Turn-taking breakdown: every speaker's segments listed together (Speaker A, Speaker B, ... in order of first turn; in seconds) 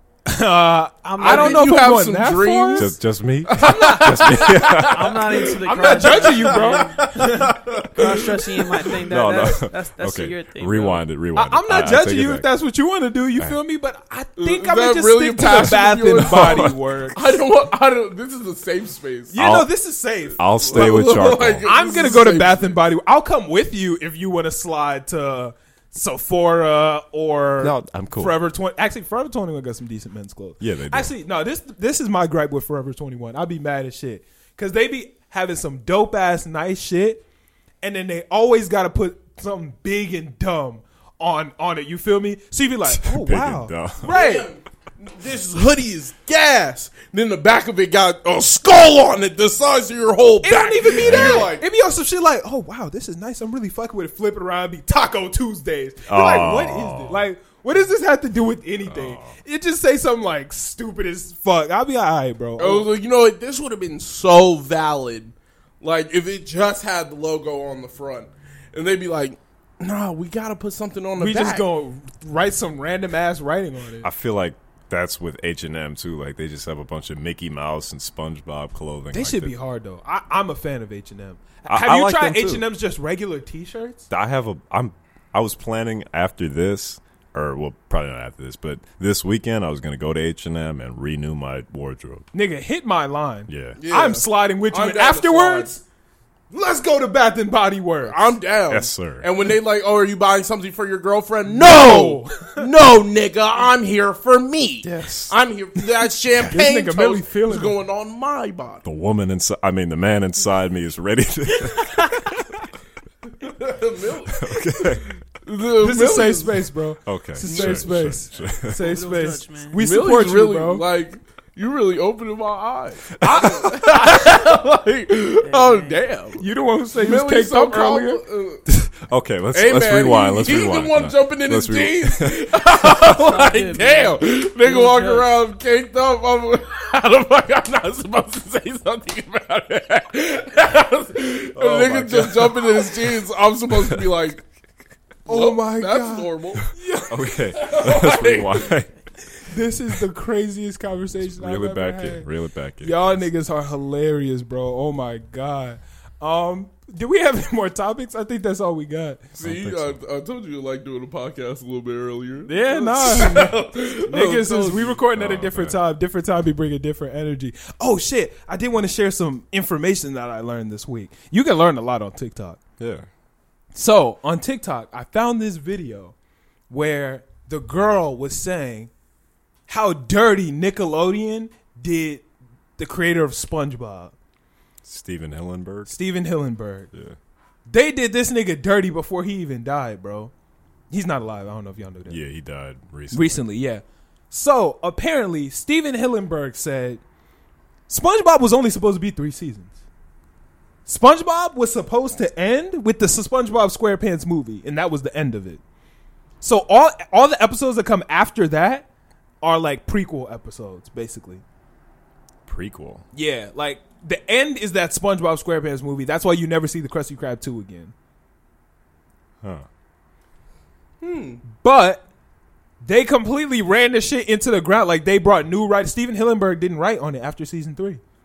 Speaker A: 0.3-2.9, 3.6-4.4, 5.6-7.5, 11.3-17.4, 19.3-21.1, 21.6-37.2, 37.8-44.5, 50.4-62.9, 71.2-74.1, 79.1-84.1, 92.3-95.8, 96.5-98.4, 101.5-102.7, 106.5-107.8, 115.8-120.8, 126.4-128.2, 145.3-147.2, 149.3-152.3, 152.8-159.3, 162.5-172.6, 173.7-176.2, 176.7-178.9, 179.7-182.2, 182.8-184.2, 185.9-186.9, 187.7-190.3, 190.9-192.2, 193.1-197.0, 197.9-199.8, 200.9-205.6, 206.4-208.9, 209.4-211.4, 213.1-217.9, 221.4-222.0, 222.8-228.0
Speaker B: 1.1-1.8, 3.9-7.1, 7.9-11.0, 118.5-119.8, 125.4-126.0, 132.8-135.4
Speaker C: 1.2-8.5, 14.4-19.4, 20.5-22.8, 44.0-51.6, 62.6-71.7, 93.8-95.7, 98.0-108.8, 113.4-114.5, 115.4-116.7, 117.5-117.8, 119.8-126.4, 127.0-128.6, 129.5-144.4, 145.3-146.7, 147.6-148.7, 159.4-165.0, 221.0-221.4
Speaker D: 2.8-5.2, 9.0-12.5, 16.1-16.8, 19.4-19.7, 20.4-21.7, 27.6-28.4, 30.6-31.1, 42.9-44.1, 51.0-51.5, 56.1-57.2, 58.9-59.4, 74.0-79.5, 81.7-82.6, 84.1-92.3, 93.5-93.8, 98.7-99.3, 104.8-105.3, 108.8-112.4, 114.4-115.1, 117.0-118.8, 123.2-123.8, 128.7-132.5, 141.6-143.2, 143.8-144.1, 147.1-148.9, 151.2-153.2, 159.4-160.0, 165.1-165.8, 172.8-173.1, 184.8-186.0, 186.9-187.2, 192.1-193.4, 212.5-213.1